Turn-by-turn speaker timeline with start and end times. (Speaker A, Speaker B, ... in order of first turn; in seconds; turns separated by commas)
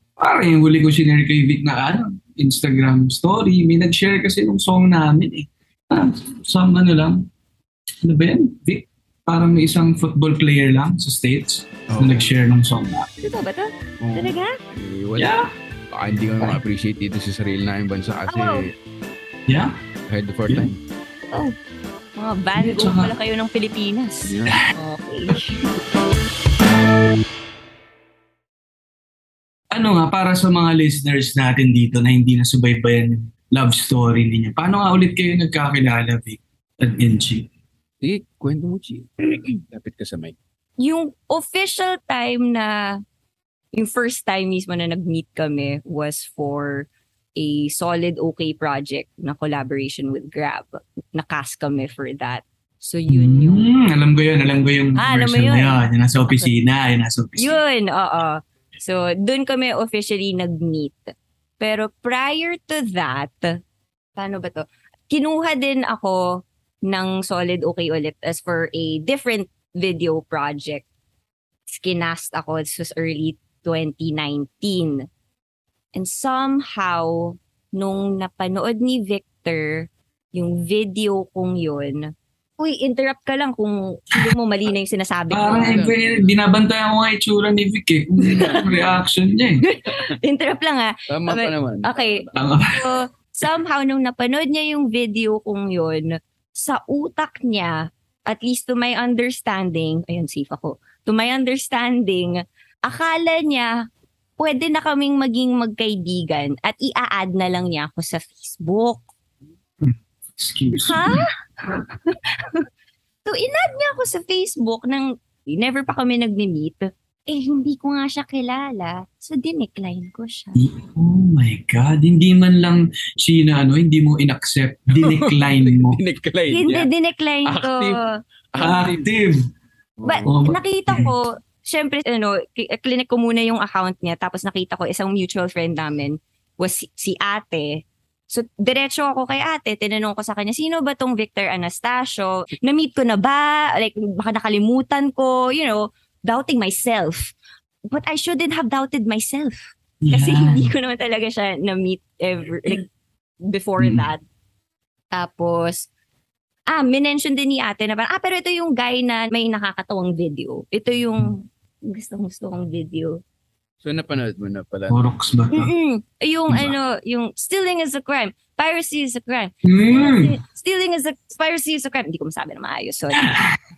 Speaker A: 0.2-7.2, Speaker A: 8.0-13.1, Speaker B: 11.9-12.3, Speaker C: 13.2-14.6, Speaker B: 14.0-15.3, Speaker A: 15.2-15.5, Speaker B: 15.9-18.7, Speaker C: 18.3-18.6, Speaker A: 19.5-19.7, Speaker B: 20.1-20.8, Speaker C: 22.2-25.7, Speaker A: 22.6-23.1, Speaker B: 24.2-24.6, Speaker A: 29.7-37.5, Speaker B: 38.0-40.3, Speaker C: 40.8-43.0, Speaker C: 43.7-53.7, Speaker A: 53.1-57.6, Speaker C: 55.0-56.5, Speaker C: 57.4-63.6, Speaker C: 64.2-66.2, Speaker C: 66.9-70.8, Speaker C: 71.7-75.0, Speaker C: 75.9-85.8, Speaker A: 85.3-89.6, Speaker B: 85.5-86.4, Speaker C: 88.2-88.6, Speaker C: 89.6-92.2, Speaker B: 91.1-92.4, Speaker A: 92.3-92.9, Speaker C: 92.7-103.7, Speaker C: 104.4-109.0, Speaker A: 109.8-111.2, Speaker C: 110.8-112.6, Speaker C: 113.2-120.6, Speaker A: 120.5-126.0, Speaker B: 125.0-126.9, Speaker C: 126.5-128.2, Speaker B: 127.4-128.0, Speaker B: 128.5-129.1, Speaker A: 128.6-129.4, Speaker B: 130.0-130.3, Speaker C: 130.0-147.3, Speaker A: 130.2-131.1, Speaker C: 147.9-152.8, Speaker A: 150.0-150.7, Speaker C: 153.4-154.2, Speaker A: 153.8-154.1, Speaker C: 155.1-155.9, Speaker C: 156.7-163.2, Speaker B: 163.8-165.1, Speaker A: 164.9-165.7, Speaker C: 165.5-173.3, Speaker A: 169.6-170.3, Speaker A: 173.2-173.5